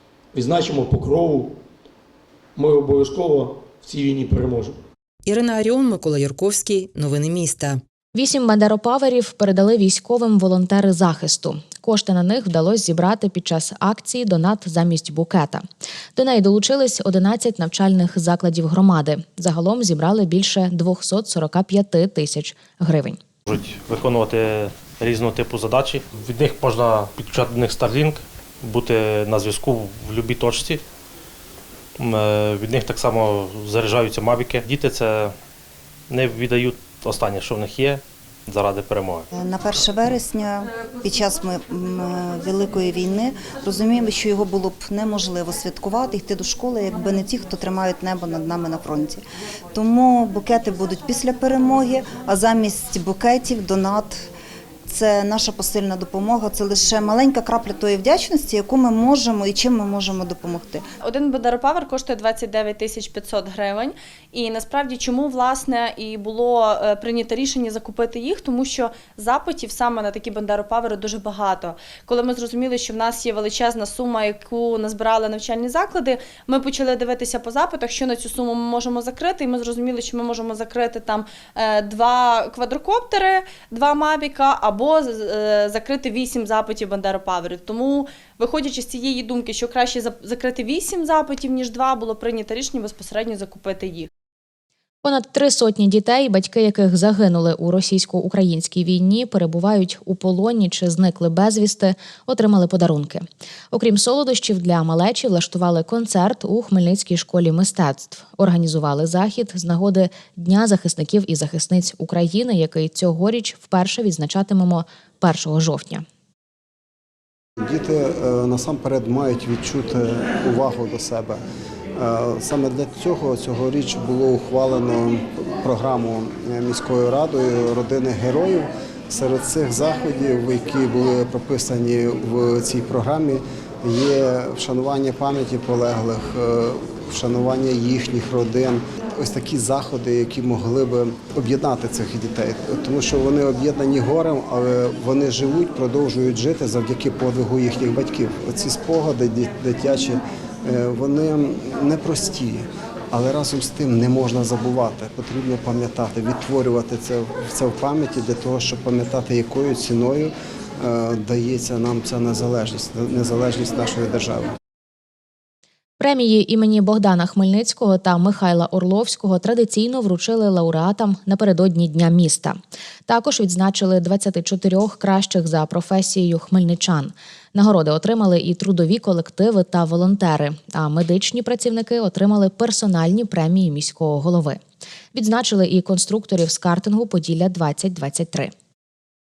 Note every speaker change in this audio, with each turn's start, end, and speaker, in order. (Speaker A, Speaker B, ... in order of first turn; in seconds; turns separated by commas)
Speaker A: 0.3-1.6, Speaker A: 2.5-4.8, Speaker B: 5.3-7.8, Speaker C: 8.1-15.6, Speaker C: 16.1-23.2, Speaker D: 23.5-30.8, Speaker D: 32.0-35.3, Speaker D: 36.1-39.2, Speaker E: 39.3-49.2, Speaker E: 49.7-54.2, Speaker E: 54.9-60.8, Speaker F: 61.0-94.1, Speaker C: 95.0-116.0, Speaker G: 117.6-121.4, Speaker G: 122.0-152.6, Speaker G: 153.1-164.5, Speaker C: 166.0-184.6, Speaker C: 185.1-188.5